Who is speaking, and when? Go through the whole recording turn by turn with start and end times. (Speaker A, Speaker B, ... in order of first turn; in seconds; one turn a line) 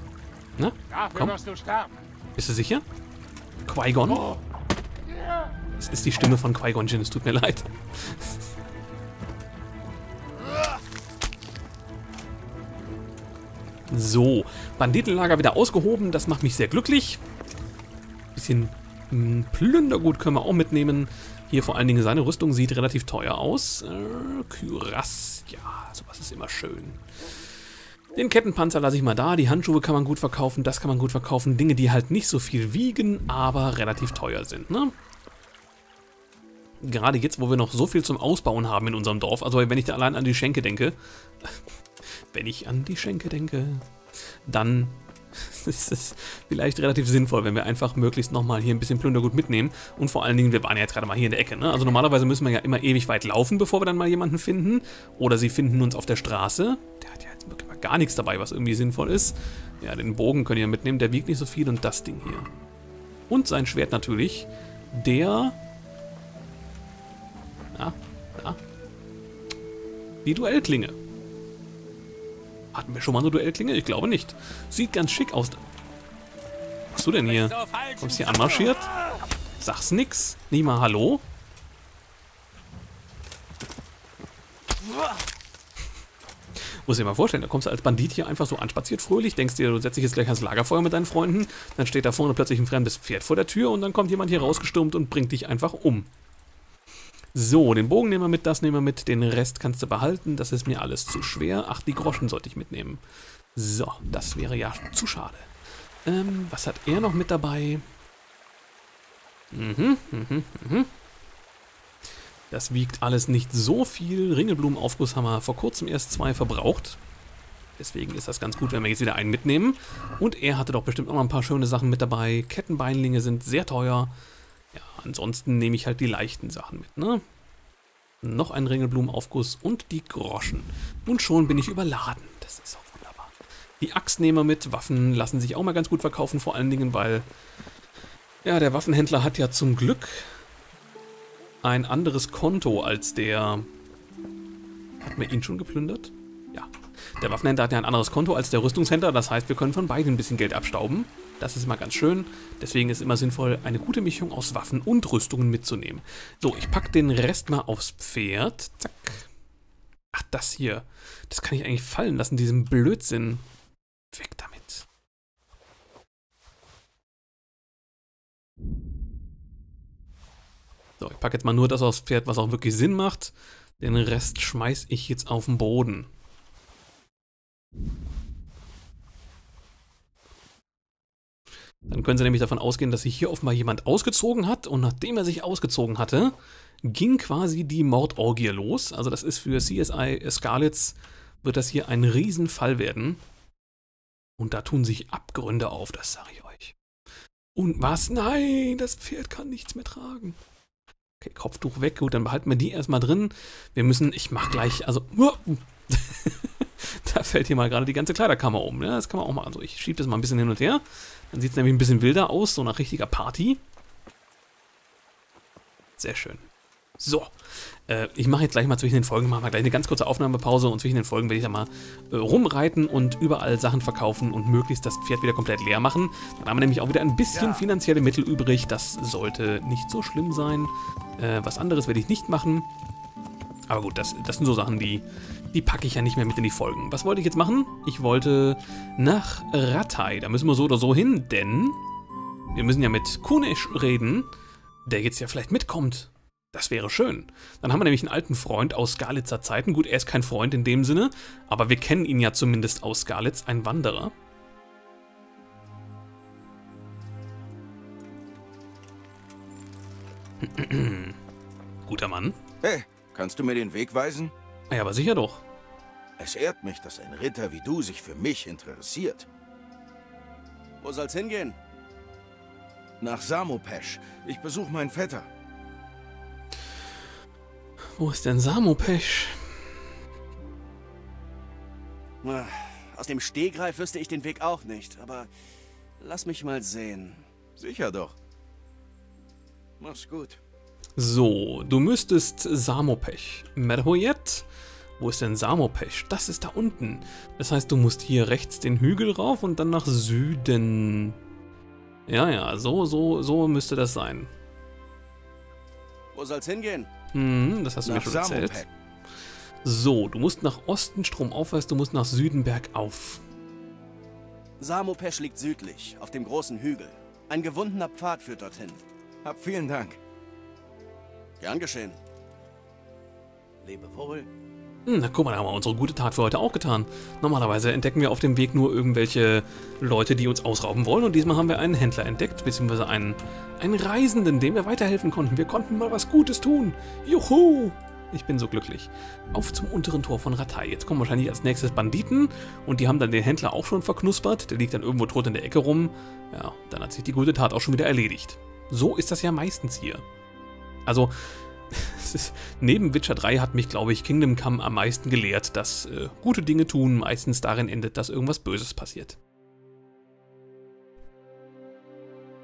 Speaker A: 0.6-1.4
Speaker B: 0.9-1.9
Speaker A: 2.4-2.8
Speaker A: 3.7-4.3
Speaker A: 5.8-8.4
Speaker A: 13.9-17.2
Speaker A: 18.3-27.0
Speaker A: 28.1-34.9
Speaker A: 36.8-43.8
Speaker A: 44.5-62.5
Speaker A: 63.3-65.6
Speaker A: 67.7-68.6
Speaker A: 70.2-71.0
Speaker A: 72.7-75.6
Speaker A: 76.9-78.9
Speaker B: 77.3-78.4
Speaker A: 79.6-81.2
Speaker A: 86.6-96.1
Speaker A: 97.3-103.0
Speaker A: 103.5-105.5
Speaker A: 106.0-107.8
Speaker A: 109.5-110.9
Speaker A: 112.5-117.0
Speaker A: 117.8-124.1
Speaker A: 124.7-127.2
Speaker A: 128.2-137.2
Speaker A: 138.4-140.4
Speaker A: 141.6-143.7
Speaker A: 145.0-159.3
Speaker A: 160.1-163.4
Speaker A: 164.1-164.8
Speaker A: 171.0-176.1
Speaker A: 181.9-193.2
Speaker A: 194.4-196.7
Speaker A: 197.5-200.4
Speaker A: 201.2-213.6
Speaker A: 216.0-216.5
Speaker A: 217.0-217.3
Speaker A: 217.9-232.7
Speaker A: 233.7-241.8
Speaker A: 242.5-244.3
Speaker A: 244.8-254.1
Speaker A: 260.4-261.2
Speaker A: 261.9-262.4
Speaker C: 262.6-264.3
Speaker A: 264.7-265.4
Speaker C: 266.2-269.3
Speaker D: 270.8-271.6
Speaker C: 273.0-275.3
Speaker A: 278.0-279.7
Speaker D: 282.2-285.3
Speaker D: 286.0-287.2
Speaker C: 287.7-288.1
Speaker D: 289.8-290.4
Speaker A: 291.0-294.5
Speaker A: 295.0-301.2
Speaker A: 302.1-304.3
Speaker D: 306.1-306.9
Speaker A: 307.1-308.6
Speaker C: 307.9-308.7
Speaker A: 309.6-313.2
Speaker D: 314.6-318.8
Speaker C: 319.2-320.0
Speaker D: 321.4-322.0
Speaker D: 323.6-324.3
Speaker A: 324.9-350.0
Speaker A: 350.9-359.2